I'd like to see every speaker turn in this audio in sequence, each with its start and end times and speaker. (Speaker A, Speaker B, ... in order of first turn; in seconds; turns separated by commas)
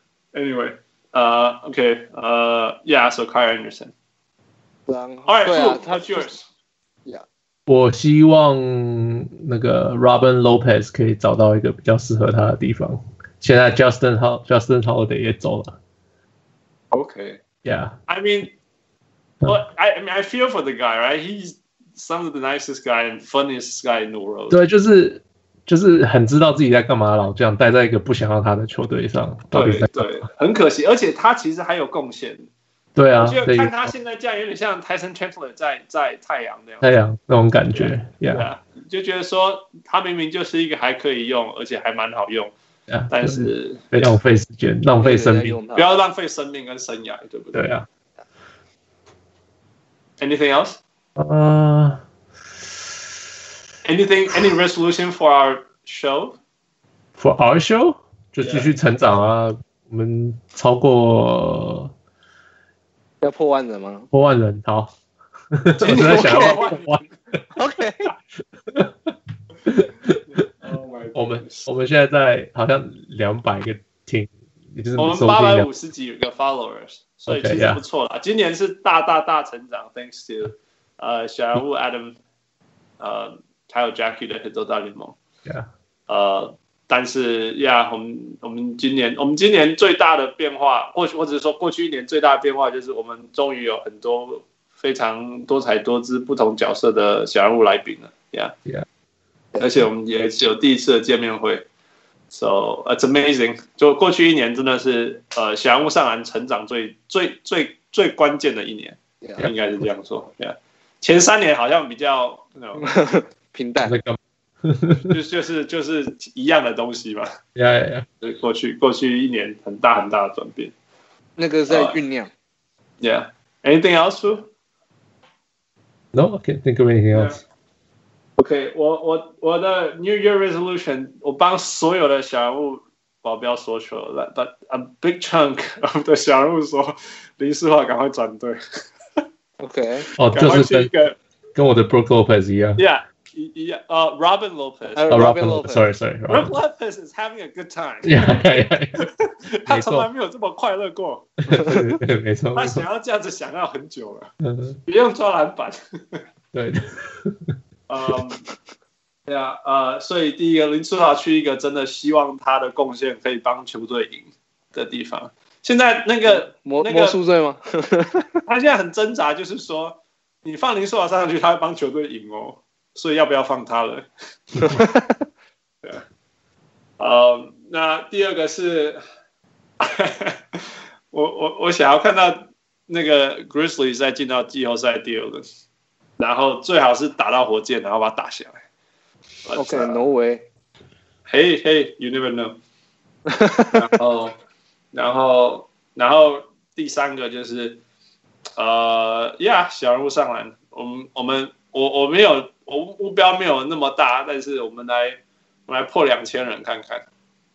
Speaker A: 0.3-3.9, Speaker B: 4.9-6.3, Speaker A: 5.3-6.5, Speaker C: 7.7-15.8, Speaker A: 16.9-17.4, Speaker C: 17.6-18.0, Speaker A: 18.1-18.5, Speaker A: 19.4-24.6, Speaker C: 24.5-30.3, Speaker A: 29.5-32.5, Speaker C: 33.0-33.9, Speaker A: 33.2-36.9, Speaker C: 36.8-38.5, Speaker A: 37.7-42.5, Speaker C: 42.9-45.6, Speaker A: 43.1-44.1, Speaker B: 45.0-45.9, Speaker A: 45.8-47.6, Speaker C: 47.5-47.9, Speaker A: 50.2-50.8, Speaker C: 51.2-52.0, Speaker A: 53.9-56.4, Speaker C: 57.2-61.9, Speaker A: 58.4-58.7, Speaker B: 63.2-64.1, Speaker C: 64.1-64.9, Speaker C: 65.5-67.4, Speaker A: 65.8-67.1, Speaker B: 65.9-66.6, Speaker B: 67.5-68.1, Speaker C: 68.7-69.1, Speaker C: 69.7-70.2, Speaker A: 70.3-71.7, Speaker C: 71.2-75.7, Speaker A: 75.0-82.2, Speaker C: 77.3-77.8, Speaker A: 83.0-85.2, Speaker A: 86.1-98.5, Speaker A: 99.6-101.7, Speaker A: 102.3-112.9, Speaker B: 112.8-114.0, Speaker C: 113.8-115.2, Speaker A: 115.1-117.3, Speaker C: 117.5-118.1, Speaker A: 118.2-120.7, Speaker B: 121.4-122.3, Speaker A: 121.7-122.0, Speaker A: 123.0-124.5, Speaker C: 126.1-127.4, Speaker A: 127.1-127.4, Speaker A: 128.4-138.6, Speaker B: 139.6-140.1, Speaker C: 140.2-140.9, Speaker A: 140.3-141.2, Speaker C: 141.6-142.8, Speaker A: 142.8-145.4, Speaker B: 145.0-145.9, Speaker C: 145.1-146.5, Speaker A: 146.3-151.6, Speaker C: 148.0-149.1, Speaker C: 149.7-150.1, Speaker C: 151.4-152.8, Speaker A: 152.5-154.3, Speaker C: 154.4-154.8, Speaker A: 154.9-156.2, Speaker C: 156.5-157.5, Speaker A: 157.9-158.4, Speaker A: 159.3-167.2, Speaker B: 166.3-168.4, Speaker A: 168.5-174.8, Speaker B: 174.7-175.2, Speaker A: 177.0-179.0, Speaker A: 179.8-185.4, Speaker A: 186.2-188.6, Speaker A: 189.4-190.0, Speaker B: 189.6-190.5, Speaker A: 191.3-192.6, Speaker B: 193.3-193.8, Speaker A: 193.7-194.4, Speaker A: 194.9-197.8, Speaker A: 198.6-207.1